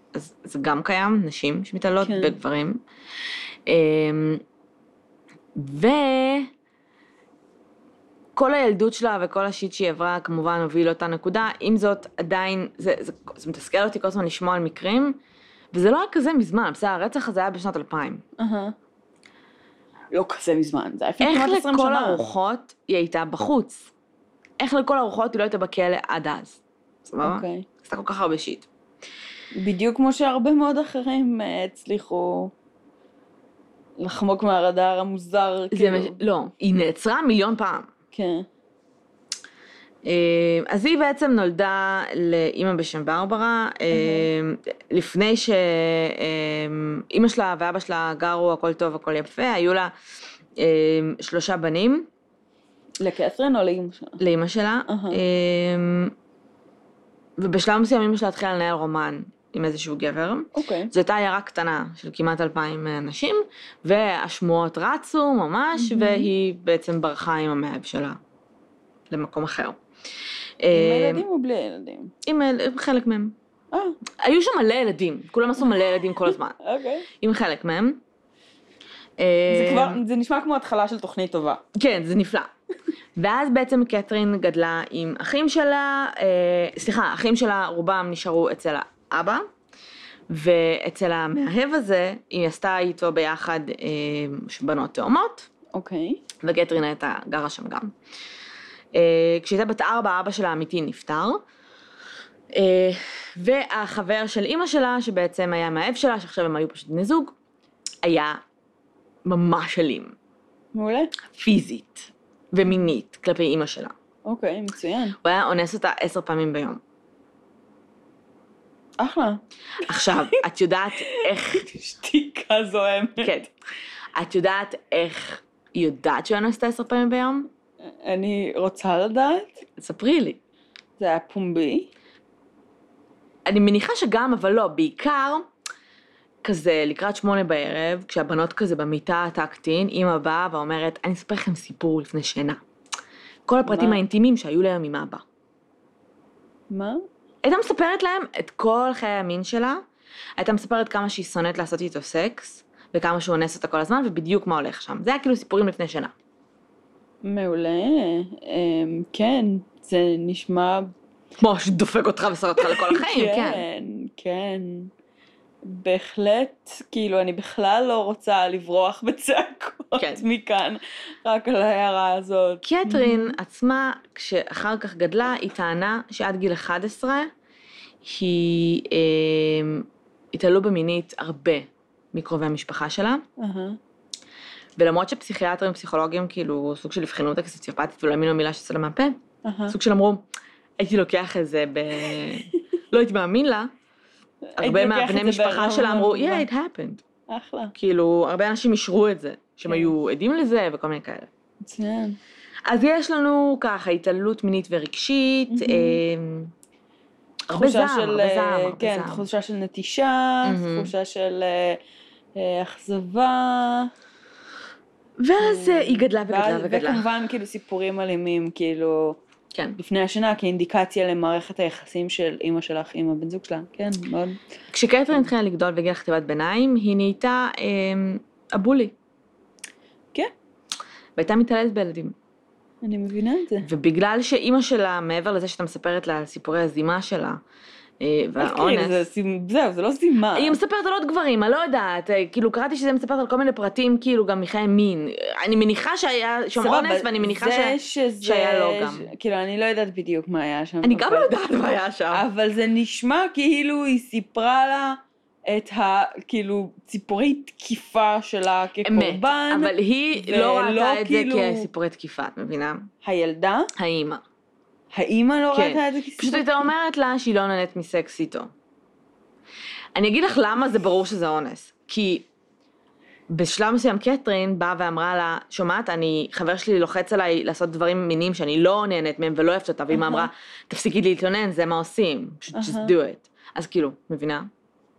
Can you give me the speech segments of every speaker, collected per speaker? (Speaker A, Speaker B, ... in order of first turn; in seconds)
Speaker A: 0.1-2.8, 3.7-4.4, 5.5-6.5, 8.3-15.2, 15.7-18.2, 21.2-23.9, 24.6-28.7, 35.7-37.9, 40.0-49.9, 50.6-52.1, 54.2-56.1, 57.4-68.2, 69.1-69.8, 70.6-71.2, 72.2-73.3, 74.2-76.6, 77.2-78.0, 79.2-80.0, 81.7-82.5, 83.2-89.4, 90.3-95.5, 96.4-97.9, 98.9-101.4, 102.5-107.3, 108.0-108.4, 109.2-110.1, 111.3-113.9, 115.2-116.8, 119.8-121.7, 123.2-123.5, 124.1-127.5, 129.8-130.4, 133.4-135.5, 136.4-142.6, 143.5-145.2, 147.4-149.8, 150.4-156.1, 161.4-163.6, 170.0-170.2, 172.6-177.3, 178.0-183.2, 184.8-189.2, 189.7-190.2, 190.8-193.7, 194.6-197.0, 197.7-201.3, 202.7-206.5, 207.5-209.2, 210.4-210.9, 215.2-217.0, 224.7-228.9, 231.2-232.1, 233.6-237.4, 238.0-239.0, 240.3-249.1, 250.8-252.2, 258.8-262.9, 263.8-264.2, 265.5-268.5, 269.9-272.3, 273.3-284.5
Speaker B: 2.0-2.3, 18.4-18.7, 20.1-22.2, 27.2-27.6, 29.5-32.5, 34.0-36.2, 38.1-38.5, 43.9-44.3, 53.0-54.2, 54.9-55.2, 60.5-60.9, 65.8-66.3, 70.7-72.1, 73.7-74.0, 76.6-77.1, 79.5-81.6, 95.7-96.2, 110.7-111.1, 114.2-115.2, 119.0-119.4, 119.9-120.4, 121.0-123.5, 128.0-129.6, 131.0-131.9, 143.7-144.0, 146.7-147.0, 157.2-160.9, 162.6-164.9, 165.7-173.3, 183.4-183.8, 189.4-189.8, 192.0-192.6, 194.5-196.4, 197.3-197.7, 201.6-202.2, 205.5-206.0, 207.5-211.8, 212.3-213.9, 215.4-219.2, 219.8-224.4, 232.8-233.7, 238.4-240.6, 246.5-251.3, 252.1-261.7, 263.0-263.7, 264.9-266.6, 279.9-280.3, 282.5-282.9